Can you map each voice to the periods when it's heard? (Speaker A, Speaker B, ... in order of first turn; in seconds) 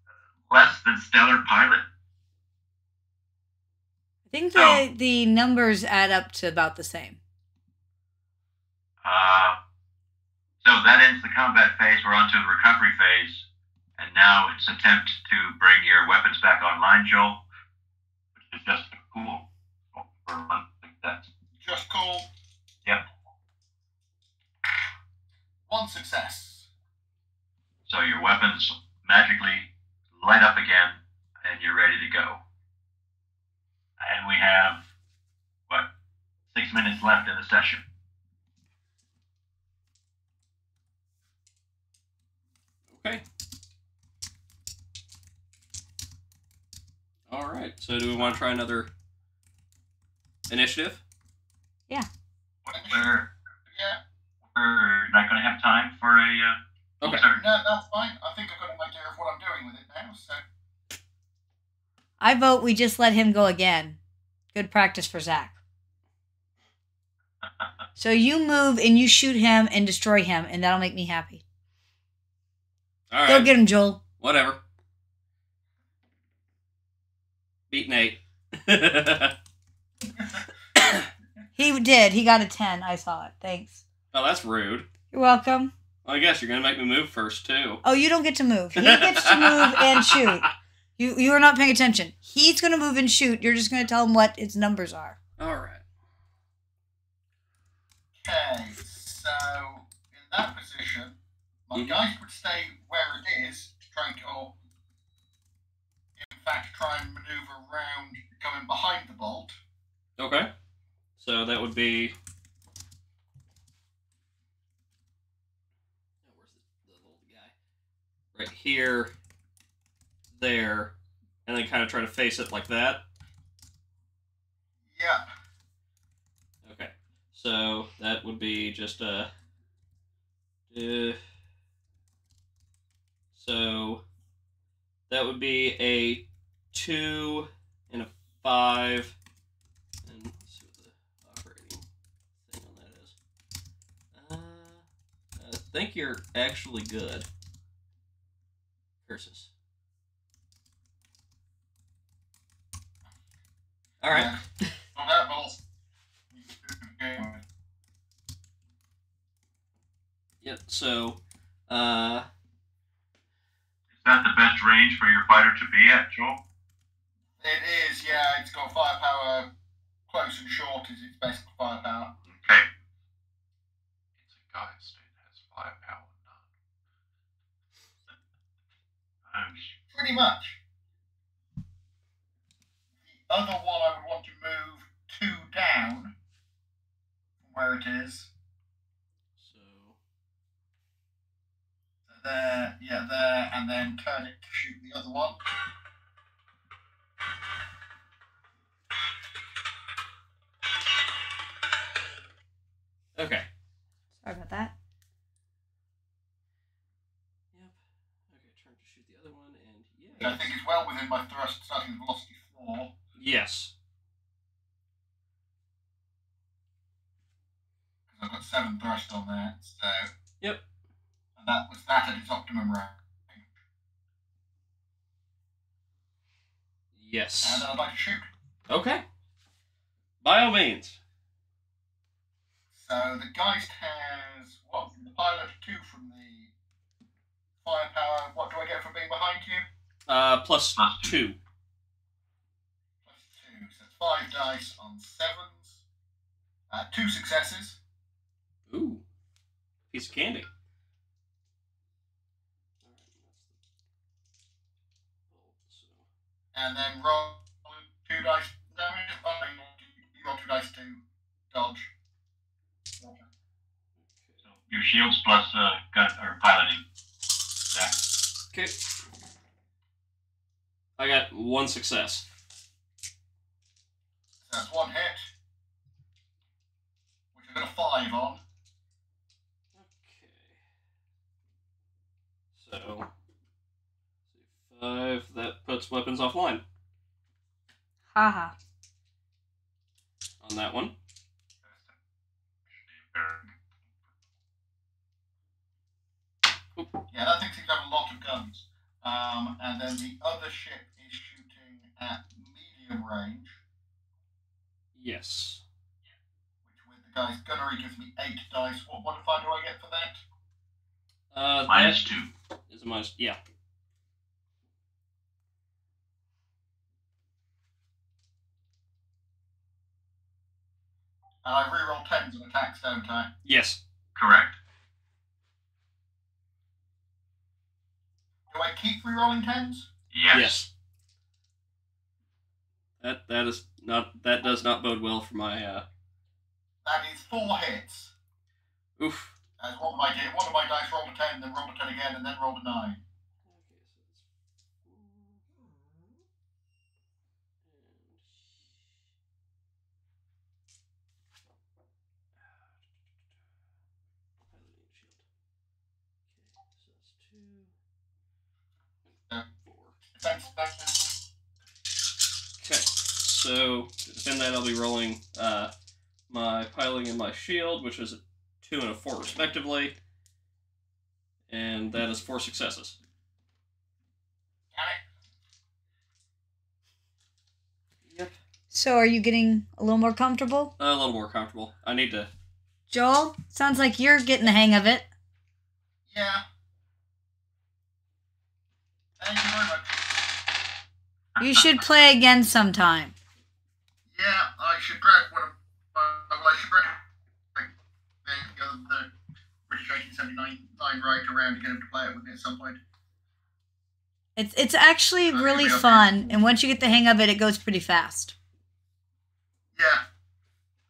Speaker A: 0.5-1.8, 4.5-4.8, 9.0-9.6, 10.6-13.4, 14.0-17.4, 18.4-21.3, 27.9-32.4, 34.0-34.8, 36.5-37.8, 52.6-53.3, 54.5-57.4, 164.0-166.4, 172.3-172.7, 179.3-179.7, 240.8-241.2, 264.5-266.8, 267.7-267.9, 311.7-312.3, 324.1-324.6, 330.1-330.6
Speaker B: 4.3-7.2, 62.2-64.0, 64.5-65.6, 68.0-71.4, 73.3-74.0, 81.5-83.8, 85.1-85.7, 87.8-90.5, 91.0-95.2, 204.2-204.7, 288.1-288.5, 378.7-380.7, 382.9-385.1, 391.4-393.1, 404.4-408.3
Speaker C: 21.6-22.3, 25.7-26.7, 52.7-53.1, 53.7-54.0, 57.3-60.4, 80.0-81.0, 98.2-104.5, 106.2-109.6, 124.8-125.2, 154.1-154.4, 154.9-155.6, 156.3-157.4, 167.4-169.5, 170.1-172.1, 179.9-180.6, 183.0-186.1, 187.4-188.3, 192.1-195.4, 210.2-212.9, 218.1-220.1, 221.4-223.4, 227.4-228.3, 232.7-236.5, 237.6-239.7, 243.0-245.8, 246.7-247.8, 256.5-261.9, 274.4-275.3, 277.3-278.4, 297.1-303.6, 306.6-310.2, 321.4-323.3, 328.5-329.9, 336.8-338.1, 339.6-343.0, 360.1-361.1, 374.7-375.0, 386.1-386.4, 389.2-390.2, 394.1-397.0, 398.2-399.1, 399.7-402.8, 405.2-406.4, 409.7-410.0
Speaker D: 42.9-43.2, 47.3-48.9, 50.5-51.0, 73.1-74.6, 77.7-79.3, 84.1-84.9, 86.0-87.8, 88.8-90.4, 95.4-95.8, 110.2-110.5, 111.2-112.1, 116.2-117.5, 118.3-119.1, 120.3-120.9, 121.5-123.0, 126.6-129.3, 130.7-131.2, 133.3-134.0, 135.1-139.2, 140.0-141.8, 142.5-143.2, 144.1-144.8, 145.3-147.3, 149.1-149.5, 154.0-154.7, 160.4-162.3, 189.4-190.0, 203.2-203.5, 208.3-210.5, 213.2-213.7, 226.9-227.7, 228.7-229.0, 230.2-231.0, 240.1-241.4, 248.7-249.0, 249.9-250.5, 252.8-253.5, 255.3-256.0, 264.0-264.4, 271.0-272.2, 279.7-280.6, 282.5-283.1, 284.3-286.6, 290.4-290.9, 304.9-305.6, 311.3-312.0, 312.7-313.4, 323.4-323.8, 330.3-330.7, 333.0-335.9, 339.0-339.3, 343.4-344.2, 344.8-345.4, 347.6-348.9, 354.5-355.2, 356.3-357.7, 359.5-359.9, 362.6-365.7, 366.3-369.9, 371.5-373.0, 378.1-378.3, 380.8-382.3
Speaker E: 174.2-176.4, 292.9-293.5